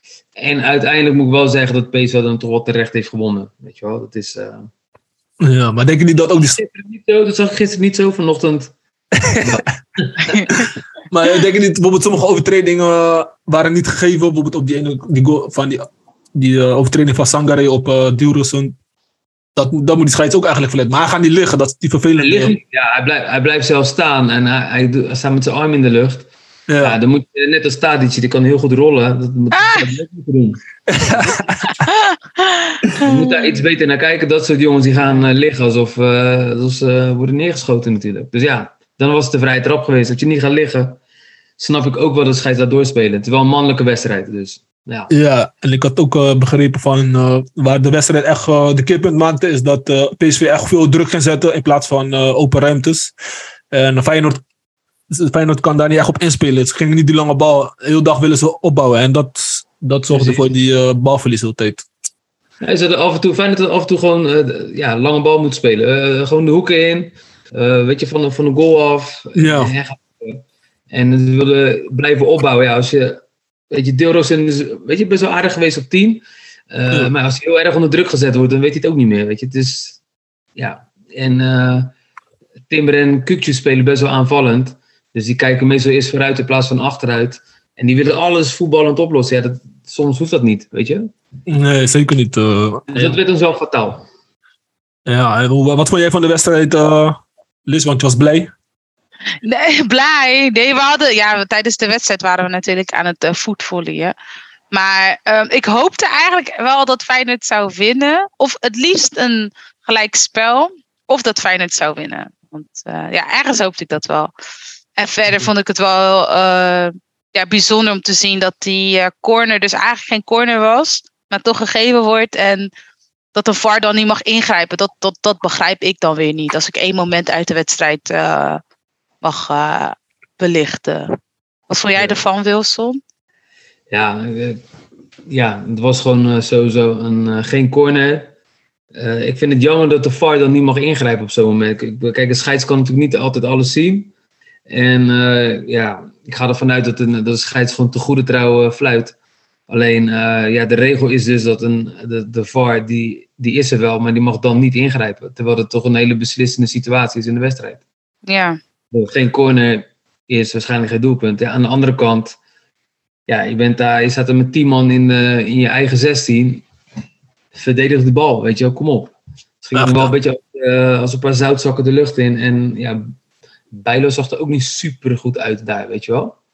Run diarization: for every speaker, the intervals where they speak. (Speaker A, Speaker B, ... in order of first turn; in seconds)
Speaker A: 0.4-4.7, 6.3-8.7, 9.4-10.5, 22.2-26.3, 26.8-30.6, 33.0-41.0, 41.6-45.1, 60.1-60.5, 62.6-80.0, 80.6-81.9, 82.7-91.1, 92.9-94.0, 132.0-132.2, 133.9-134.6, 135.3-138.3, 138.9-144.1, 144.7-149.2, 149.7-157.8, 158.9-162.4, 163.3-166.7, 167.6-173.1, 173.7-176.4
Speaker B: 5.4-6.6, 9.2-9.7, 10.5-18.7, 19.6-22.6, 26.7-27.0, 30.9-31.7, 45.1-53.1, 53.7-54.4, 55.1-61.9, 69.4-69.7, 91.5-93.2, 95.1-98.5, 169.7-170.2
Speaker C: 10.2-10.7, 29.5-29.9, 31.7-33.6, 99.4-104.1, 104.7-114.3, 115.0-122.7, 123.3-128.6, 129.2-131.1, 131.7-133.0, 158.3-158.6